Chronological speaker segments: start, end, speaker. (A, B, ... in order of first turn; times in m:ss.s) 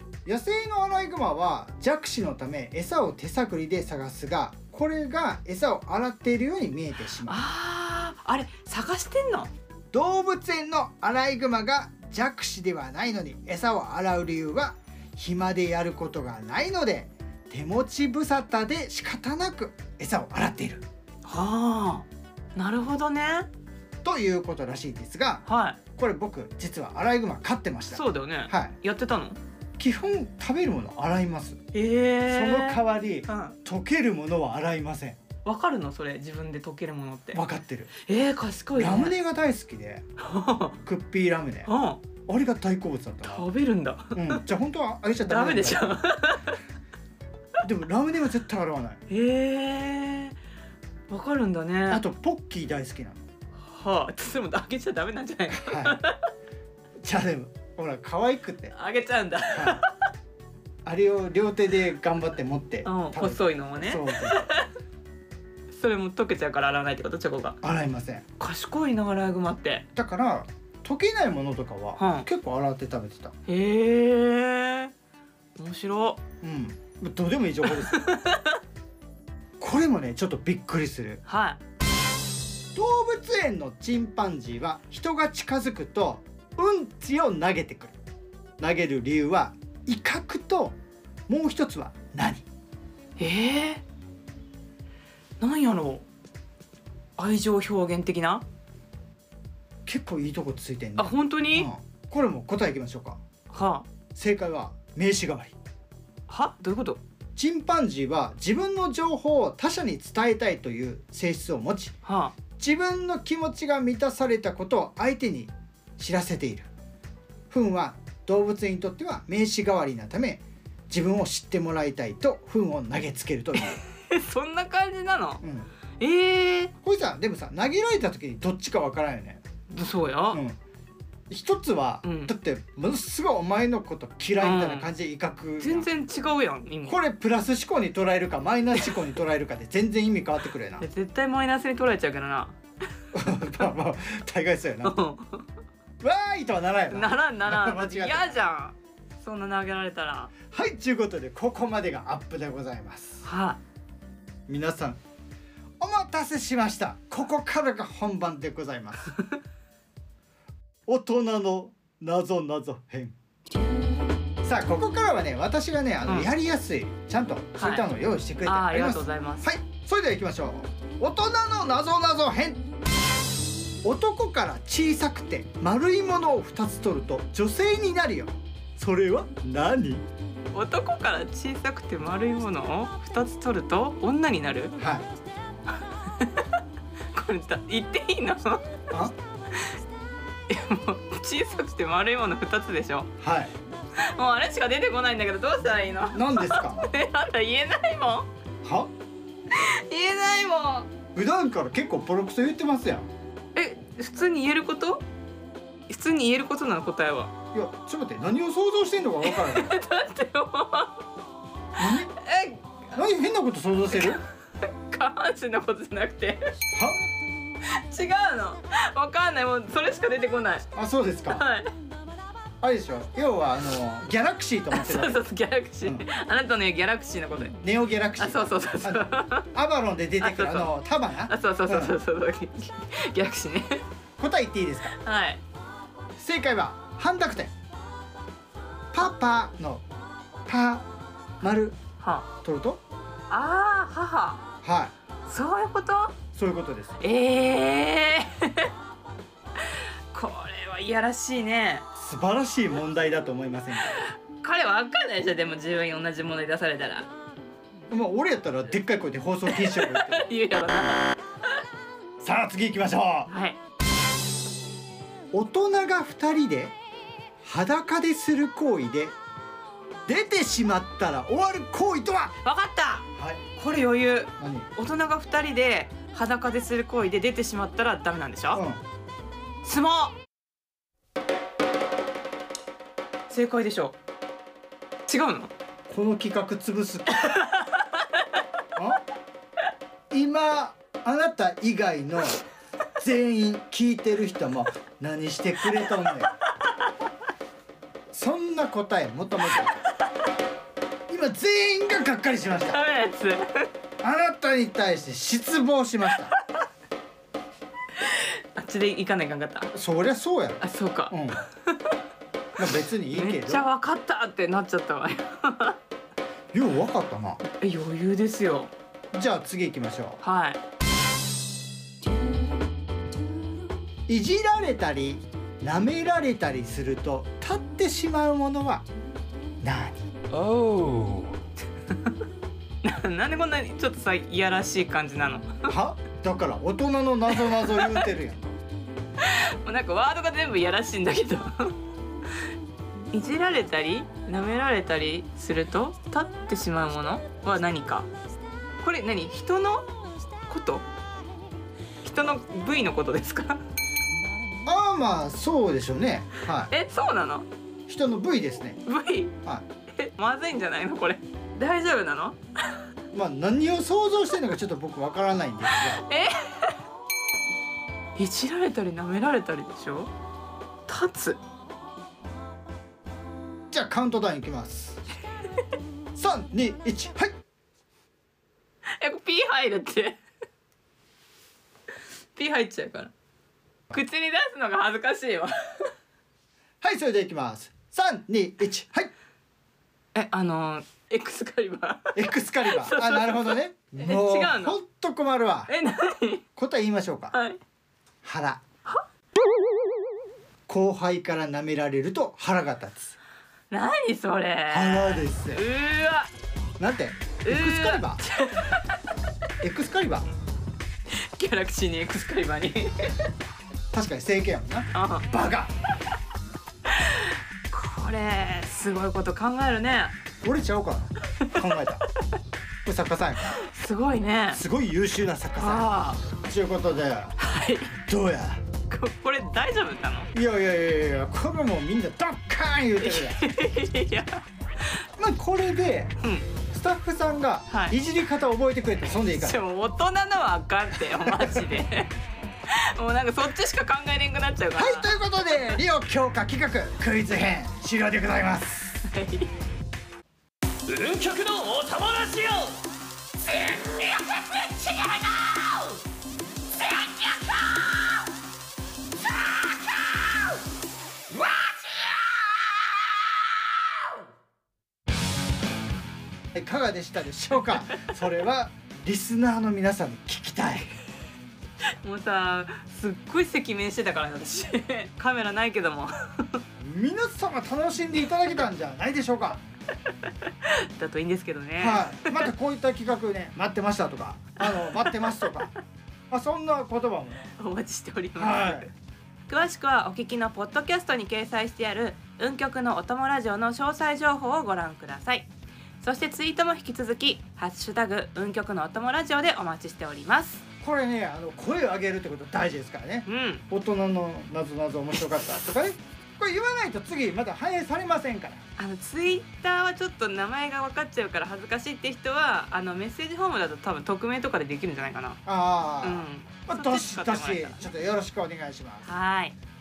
0:00.3-0:07.5 A
0:07.2-0:09.5 B
0:09.9-0:20.8 A
0:21.3-0:23.5 B
0:24.0-0:25.4 A
0:25.5-0:25.8 B
0:26.0-0:28.7 A
0:27.9-0:29.4 B
0:29.8-0:31.6 A
0:31.7-0:33.6 B
0:32.3-0:35.2 A
0:35.4-0:37.4 B
0:37.3-0:37.9 A
0:38.1-0:39.2 B
0:38.8-0:40.0 A
0:40.2-0:40.8 B
0:40.9-0:41.7 A
0:41.7-0:42.0 B
0:42.3-0:43.5 A
0:43.2-0:44.4 B
0:44.2-0:46.0 A
0:45.2-0:46.6 B
0:47.6-0:49.0 A
0:49.1-0:50.4 B
0:51.1-0:52.0 B
0:51.9-0:53.2 A
0:53.6-0:56.2 B
0:55.5-0:56.0 A
0:57.0-0:58.7 A
0:58.7-0:59.9 B
0:59.5-0:59.8 A
1:00.8-1:04.5 A
1:02.8-1:04.7 B
1:05.7-1:07.6 B
1:07.6-1:08.2 A
1:08.4-1:09.8 B
1:09.9-1:13.3 A
1:12.0-1:12.3 B
1:13.5-1:14.9 B
1:15.6-1:16.2 B
1:16.4-1:18.0 A
1:17.9-1:18.6 B
1:19.6-1:21.2 A
1:21.3-1:21.6 B
1:22.8-1:28.0 A
1:28.6-1:30.8 A
1:31.3-1:32.4 A
1:33.2-1:33.8 B
1:35.4-1:36.1 B
1:37.2-1:38.4 B
1:39.9-1:43.2 A
1:41.0-1:41.7 B
1:43.5-1:43.9 B
1:44.2-1:45.6 A
1:46.3-1:47.0 B
1:47.4-1:51.9 A
1:52.0-1:52.3 B
1:52.6-1:56.7 A
1:57.5-2:03.8 A
2:03.6-2:05.4 B
2:05.4-2:05.7 A
2:06.0-2:06.7 B
2:06.8-2:09.4 A
2:09.7-2:10.4 B
2:10.3-2:10.6 A
2:11.3-2:15.9 A
2:12.0-2:12.3 B
2:14.4-2:14.9 B
2:15.6-2:17.0 B
2:16.9-2:20.8 A
2:20.8-2:22.6 B
2:23.1-2:24.9 A
2:24.8-2:25.4 B
2:26.0-2:28.4 A
2:26.9-2:30.3 B
2:30.5-2:33.2 A
2:33.2-2:33.6 B
2:34.5-2:35.0 A
2:35.8-2:39.1 A
2:40.9-2:43.1 A
2:44.4-2:52.6 A
2:47.6-2:47.9 B
2:48.5-2:49.5 B
2:53.8-3:00.1 A
3:00.5-3:04.7 B
3:04.8-3:05.1 A
3:06.1-3:06.5 B
3:07.1-3:08.6 B
3:10.5-3:13.1 B
3:13.2-3:13.5 A
3:14.0-3:18.3 B
3:16.1-3:16.9 A
3:18.6-3:18.9 A
3:19.5-3:20.9 B
3:21.1-3:23.1 A
3:23.6-3:25.0 B
3:25.9-3:27.3 B
3:27.5-3:29.7 A
3:29.2-3:31.0 B
3:31.8-3:32.1 A
3:31.8-3:32.6 B
3:32.9-3:34.2 A
3:33.9-3:36.4 B
3:37.7-3:40.7 B
3:40.8-3:41.4 A
3:41.3-3:41.7 B
3:42.6-3:45.2 A
3:44.7-3:47.6 B
3:47.6-3:51.9 A
3:48.2-3:49.5 B
3:50.2-3:50.7 B
3:51.3-3:53.8 B
3:54.2-3:55.0 A
3:54.9-3:55.4 B
3:56.2-3:57.5 A
3:58.9-3:59.8 A
4:00.5-4:00.9 A
4:01.4-4:01.8 A
4:02.0-4:02.3 B
4:02.4-4:02.8 A
4:03.3-4:04.4 B
4:04.6-4:04.9 A
4:05.3-4:06.2 B
4:06.3-4:07.0 A
4:07.0-4:08.7 B
4:09.6-4:11.8 B
4:12.0-4:14.0 A
4:13.9-4:17.1 B
4:17.9-4:20.3 A
4:19.5-4:21.2 B
4:22.2-4:23.3 A
4:23.3-4:23.6 B
4:25.3-4:26.8 A
4:27.4-4:29.2 A
4:30.1-4:32.3 A
4:32.4-4:38.6 B
4:34.4-4:34.7 A
4:38.5-4:38.8 A
4:39.6-4:40.2 B
4:43.3-4:44.0 B
4:45.1-4:45.5 B
4:45.9-4:47.4 A
4:47.2-4:48.2 B
4:48.8-4:49.0 A
4:50.1-4:52.4 A
4:53.0-4:56.3 A
4:58.1-4:59.8 A
5:01.1-5:02.8 A
5:02.6-5:03.7 B
5:04.0-5:06.3 A
5:08.0-5:09.7 B
5:09.7-5:11.4 A
5:10.6-5:11.9 B
5:12.6-5:13.7 A
5:13.1-5:15.8 B
5:16.5-5:17.4 A
5:17.6-5:18.7 B
5:19.1-5:20.2 A
5:20.2-5:20.6 B
5:24.1-5:28.8 A
5:29.6-5:30.0 A
5:30.4-5:31.3 C
5:32.8-5:35.7 B
5:35.7-5:38.6 A
5:37.3-5:38.0 B
5:39.2-5:41.8 B
5:43.1-5:48.1 B
5:48.8-5:49.9 B
5:50.5-5:50.8 B
5:52.0-5:53.6 B
5:54.7-5:56.7 A
5:56.7-5:57.5 B
5:57.9-5:58.8 A
5:58.8-5:59.4 B
5:59.9-6:02.8 B
6:03.1-6:06.0 A
6:05.7-6:06.8 B
6:08.2-6:10.1 B
6:10.9-6:11.4 B
6:13.7-6:15.0 A
6:16.2-6:17.3 A
6:19.0-6:20.2 B
6:22.4-6:23.1 B
6:23.9-6:25.9 B
6:26.8-6:29.1 A
6:30.1-6:34.8 B
6:32.2-6:35.7 A
6:35.7-6:36.4 B
6:36.6-6:37.3 A
6:37.3-6:37.6 B
6:38.2-6:38.6 A
6:40.7-6:43.2 A
6:43.7-6:46.3 B
6:44.7-6:45.6 A
6:46.8-6:48.2 A
6:47.5-6:48.8 B
6:49.6-6:50.3 A
6:51.1-6:53.2 B
6:53.9-6:55.7 A
6:54.9-6:55.3 B
6:56.9-7:00.1 B
7:00.4-7:02.0 A
7:02.8-7:03.6 A
7:03.5-7:04.6 B
7:04.5-7:07.4 A
7:05.6-7:06.2 B
7:07.4-7:08.0 B
7:08.1-7:08.6 A
7:08.9-7:10.3 B
7:10.3-7:13.4 A
7:13.0-7:14.4 B
7:15.2-7:16.2 A
7:16.2-7:16.5 B
7:16.7-7:19.6 A
7:17.7-7:18.0 B
7:19.3-7:22.1 B
7:21.0-7:21.8 A
7:22.7-7:25.8 B
7:24.8-7:29.0 A
7:29.0-7:29.5 B
7:30.9-7:32.8 C
7:33.9-7:35.8 B
7:46.5-7:50.9 A
7:52.0-7:56.6 B
7:56.8-7:59.6 A
8:00.5-8:02.5 B
8:01.8-8:05.7 A
8:04.6-8:05.6 B
8:06.3-8:07.5 A
8:07.6-8:08.9 B
8:08.4-8:08.9 A
8:09.5-8:15.5 B
8:16.0-8:20.6 B
8:20.8-8:28.6 A
8:23.3-8:23.6 B
8:28.8-8:35.4 B
8:35.5-8:39.1 A
8:36.0-8:37.9 B
8:39.0-8:39.6 B